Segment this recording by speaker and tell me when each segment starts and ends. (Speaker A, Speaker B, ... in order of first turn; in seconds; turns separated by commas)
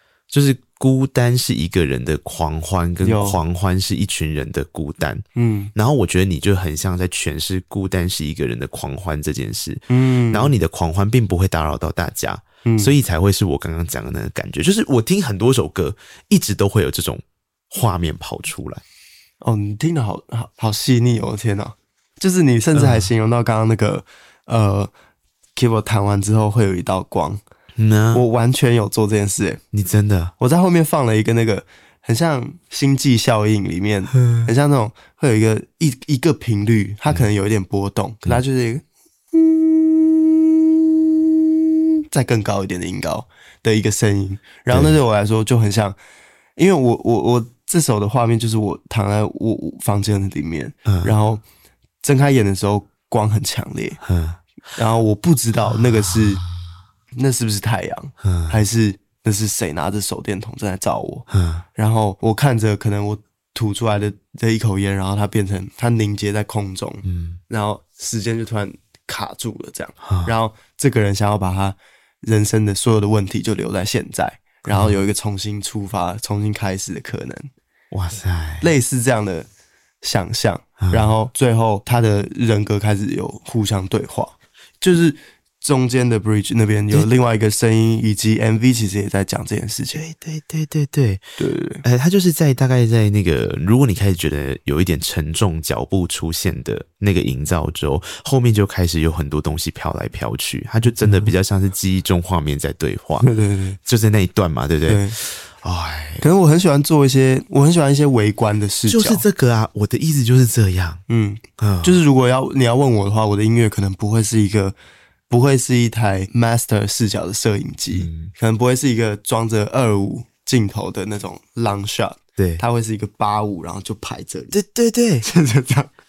Speaker A: 0.3-5.2, Speaker B: 3.0-3.4, Speaker B: 5.3-5.7, Speaker A: 5.8-18.8, Speaker B: 9.9-10.6, Speaker B: 12.6-12.9, Speaker B: 19.4-24.9, Speaker A: 22.8-23.1, Speaker B: 25.6-27.4, Speaker A: 27.8-28.2, Speaker B: 28.1-29.6, Speaker A: 29.7-30.3, Speaker B: 30.4-46.0, Speaker A: 34.2-34.5, Speaker A: 44.7-45.0, Speaker B: 46.6-51.4, Speaker A: 50.9-51.1, Speaker B: 52.0-54.0, Speaker A: 54.0-54.4, Speaker B: 54.8-56.4, Speaker B: 57.1-77.5, Speaker A: 58.2-58.6, Speaker A: 61.3-61.6, Speaker A: 67.0-67.4, Speaker A: 70.0-70.3, Speaker A: 74.7-75.0, Speaker A: 77.9-78.7, Speaker B: 78.6-79.5, Speaker B: 80.0-90.0, Speaker A: 80.8-81.1, Speaker A: 89.9-91.2, Speaker B: 91.4-91.8, Speaker A: 91.8-103.3, Speaker B: 100.9-101.3, Speaker B: 103.2-103.8, Speaker A: 103.9-106.2, Speaker B: 104.9-105.2, Speaker B: 106.2-109.2, Speaker A: 108.9-111.0, Speaker B: 111.1-114.8, Speaker A: 111.6-112.0, Speaker B: 115.3-124.6, Speaker A: 117.9-118.3, Speaker A: 122.4-122.6, Speaker A: 124.5-125.3, Speaker B: 125.2-125.9